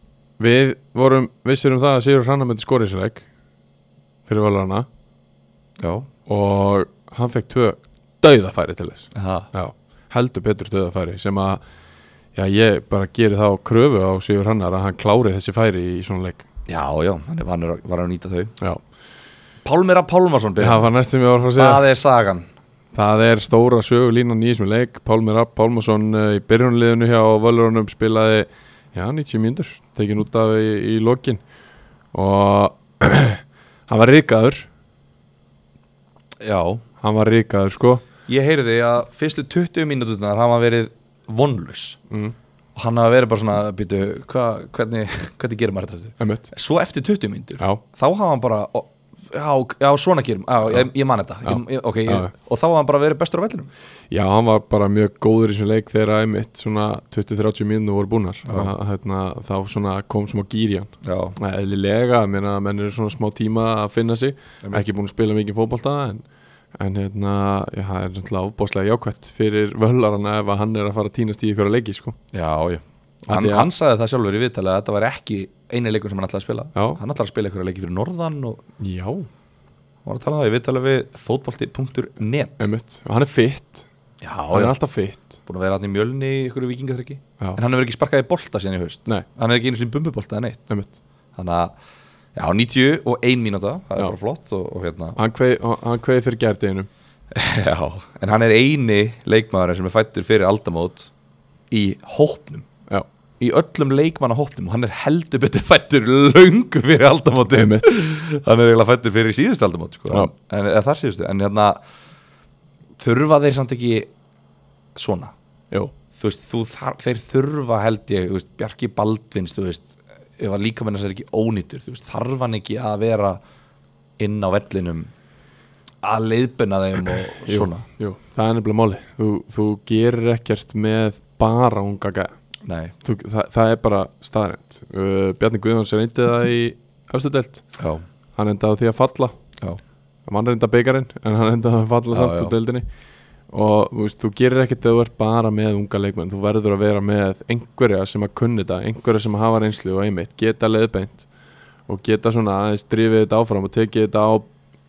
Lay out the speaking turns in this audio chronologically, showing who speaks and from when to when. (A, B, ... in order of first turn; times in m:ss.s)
0:00.4-0:03.3 A
0:04.3-0:04.9 A
0:05.8-0:06.1 B
0:06.3-0:11.6 A
0:09.1-0:09.5 B
0:12.4-0:16.4 A
0:16.7-0:18.5 B
0:19.6-0:20.9 B
0:20.6-0:21.8 A
0:21.6-0:22.4 B
0:22.9-0:31.4 A
0:32.1-0:34.7 A
0:36.4-0:36.8 B
0:37.0-0:38.0 A
0:38.3-0:42.0 B
0:42.1-0:42.4 A
0:42.8-0:53.7 B
0:46.2-0:46.5 A
0:51.4-0:52.3 A
0:54.1-1:06.2 A
0:58.4-0:58.7 B
1:01.0-1:01.4 B
1:04.6-1:04.9 B
1:06.8-1:12.2 A
1:12.3-1:18.6 B
1:13.3-1:13.7 A
1:16.7-1:17.0 A
1:18.8-1:19.3 A
1:20.0-1:22.7 B
1:22.6-1:23.8 A
1:24.2-1:24.7 B
1:24.5-1:25.3 A
1:25.4-1:30.7 B
1:31.4-1:31.7 B
1:32.4-1:35.2 B
1:35.2-1:36.9 A
1:37.3-1:41.1 B
1:41.7-1:42.7 B
1:43.4-1:51.8 B
1:47.5-1:47.9 A
1:53.0-1:54.1 B
1:55.0-1:55.3 B
1:56.1-2:03.4 B
2:04.2-2:05.1 B
2:06.0-2:07.8 B
2:07.4-2:12.3 A
2:12.6-2:12.9 B
2:13.0-2:17.6 A
2:17.8-2:18.0 B
2:18.4-2:19.4 A
2:20.3-2:22.8 A
2:22.1-2:22.5 B
2:23.5-2:31.3 A
2:31.9-2:34.5 A